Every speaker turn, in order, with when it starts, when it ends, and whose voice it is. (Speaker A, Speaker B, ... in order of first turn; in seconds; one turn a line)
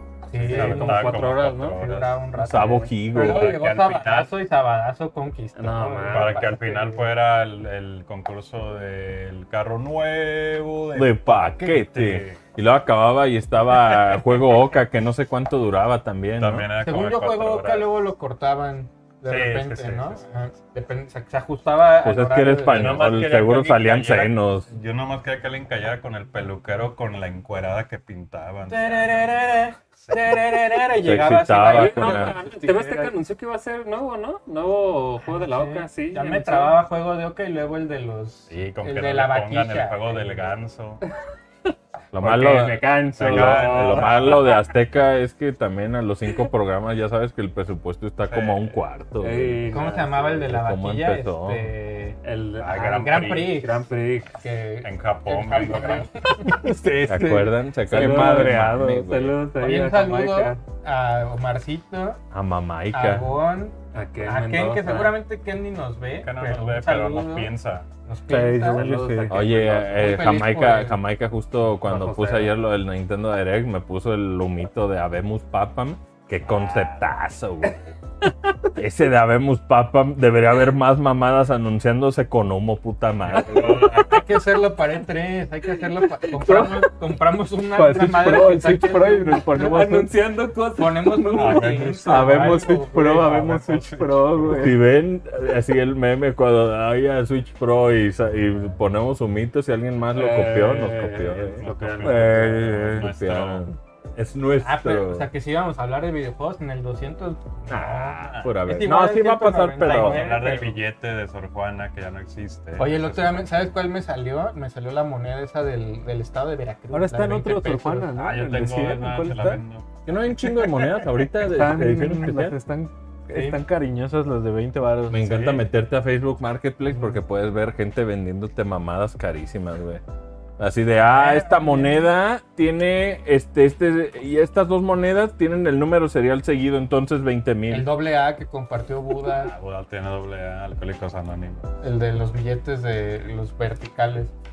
Speaker A: 0.3-1.2
Speaker B: 0.4-2.1
Speaker C: 0.5-1.8
Speaker A: 1.7-7.0
Speaker D: 2.4-3.6
Speaker B: 3.1-4.3
Speaker C: 5.5-6.6
Speaker B: 6.1-12.4
Speaker D: 10.9-16.7
Speaker B: 16.4-17.9
Speaker A: 16.8-23.2
Speaker B: 19.2-20.2
Speaker D: 22.0-24.7
Speaker B: 22.6-29.3
Speaker A: 28.6-33.1
Speaker B: 30.0-30.5
Speaker D: 30.9-32.3
Speaker C: 31.6-36.8
Speaker A: 35.2-40.5
Speaker B: 38.5-41.0
Speaker D: 42.1-49.8
Speaker C: 42.2-44.6
Speaker B: 43.2-44.4
Speaker B: 48.2-48.8
Speaker C: 49.2-50.5
Speaker A: 49.7-56.7
Speaker D: 50.4-51.7
Speaker C: 52.2-54.4
Speaker B: 52.6-53.4
Speaker B: 54.8-56.1
Speaker E: 56.4-58.9
Speaker D: 57.0-59.4
Speaker C: 57.9-60.6
Speaker A: 59.6-62.2
Speaker D: 62.3-63.3
Speaker A: 62.9-68.9
Speaker C: 63.9-65.2
Speaker B: 66.2-67.9
Speaker C: 68.3-70.2
Speaker E: 68.7-69.3
Speaker D: 69.3-77.9
Speaker A: 69.9-71.0
Speaker C: 71.8-72.5
Speaker B: 76.5-77.0
Speaker D: 78.8-84.0
Speaker B: 83.2-84.3
Speaker A: 84.0-89.9
Speaker D: 86.3-86.9
Speaker E: 87.7-90.1
Speaker C: 89.4-91.9
Speaker A: 90.7-93.8
Speaker B: 91.3-94.6
Speaker E: 92.0-94.8
Speaker D: 94.5-105.3
Speaker C: 100.1-102.8
Speaker B: 101.6-103.7
Speaker E: 102.0-103.1
Speaker A: 104.6-110.8
Speaker D: 107.7-110.3
Speaker B: 108.2-108.5
Speaker B: 109.8-113.6
Speaker A: 112.8-118.1
Speaker E: 116.9-119.6
Speaker B: 118.1-119.9
Speaker D: 120.0-122.6
Speaker B: 120.4-121.0
Speaker E: 121.5-125.3
Speaker C: 121.5-122.0
Speaker A: 123.3-123.6
Speaker D: 125.1-130.0
Speaker B: 125.2-125.7
Speaker D: 130.6-137.9
Speaker A: 131.1-132.1
Speaker A: 137.7-139.5
Speaker B: 139.2-141.7
Speaker A: 141.8-144.3